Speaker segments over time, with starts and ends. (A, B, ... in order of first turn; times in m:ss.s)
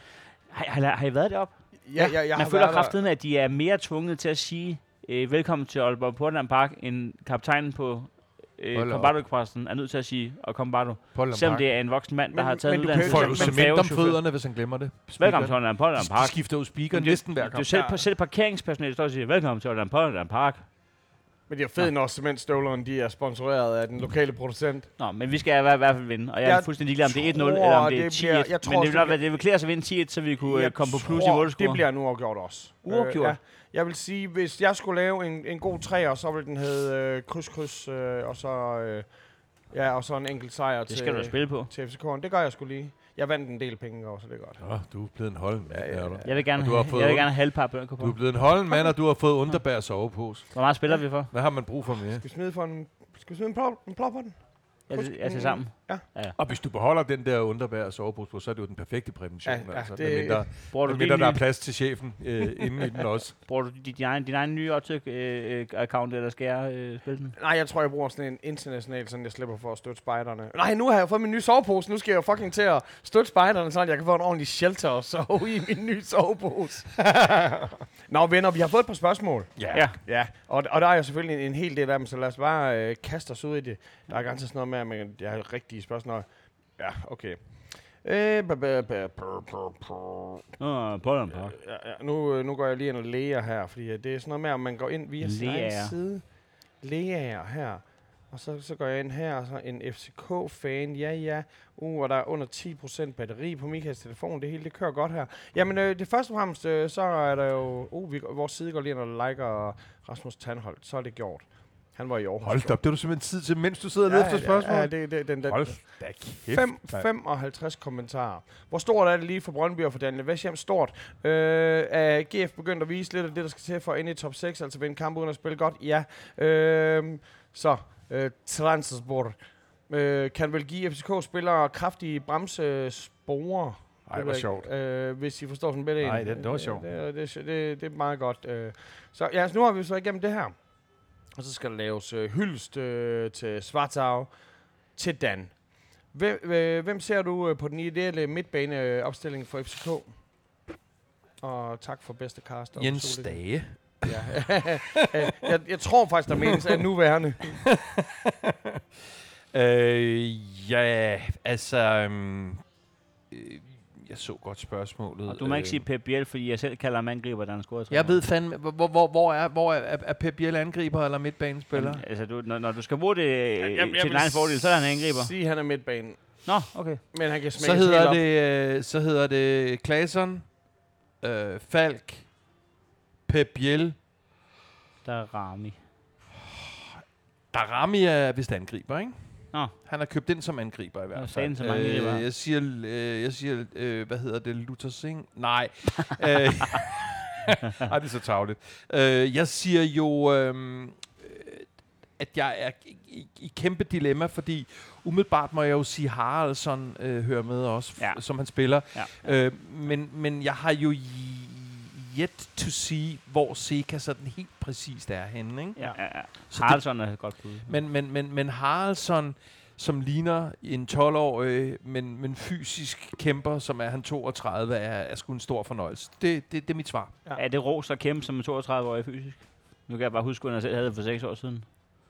0:00.5-0:14.3 A
0:01.9-0:03.0 B
0:08.7-0:09.1 C
0:11.1-0:11.7 C
0:12.3-0:13.7 B
0:13.0-0:17.7 C
0:15.2-0:20.6 A
0:17.7-0:18.0 B
0:21.5-0:24.9 B
0:25.0-0:31.8 A
0:26.4-0:29.2 B
0:30.4-0:39.0 B
0:32.9-0:33.4 A
0:39.7-0:44.6 B
0:40.9-0:41.7 A
0:44.6-0:50.6 C
0:45.7-0:46.3 B
0:46.2-0:48.2 A
0:50.5-0:51.3 A
0:51.2-0:52.2 C
0:52.2-0:54.4 B
0:54.9-0:56.0 B
0:54.9-0:56.4 A
0:56.4-1:03.3 C
0:59.4-1:00.4 B
1:00.7-1:01.4 A
1:03.4-1:07.3 A
1:07.4-1:26.2 B
1:19.6-1:19.9 C
1:26.8-1:27.4 B
1:28.0-1:30.4 B
1:30.6-1:31.6 A
1:31.3-1:36.2 B
1:35.2-1:35.9 A
1:36.8-1:52.8 B
1:52.4-1:54.9 C
1:54.0-2:09.4 B
1:55.4-1:57.1 C
2:09.9-2:20.5 B
2:14.1-2:14.7 C
2:16.0-2:16.9 C
2:21.4-2:24.3 B
2:25.0-2:25.5 B
2:26.1-2:30.1 B
2:31.4-2:33.4 B
2:32.8-2:35.5 C
2:34.0-2:37.6 B
2:37.6-2:39.0 C
2:39.5-2:42.6 C
2:43.3-2:45.8 C
2:45.3-2:48.2 A
2:47.9-2:52.0 C
2:51.7-2:55.3 A
2:53.6-2:56.5 B
2:56.4-2:57.0 A
2:57.1-2:58.2 B
2:57.6-3:00.5 C
3:01.2-3:02.3 C
3:03.3-3:04.0 C
3:05.0-3:05.8 A
3:06.4-3:06.9 C
3:07.5-3:09.2 C
3:09.7-3:36.8 C
3:11.1-3:12.2 A
3:28.9-3:29.3 A
3:35.8-3:37.7 A
3:37.6-3:47.1 C
3:47.4-3:51.6 A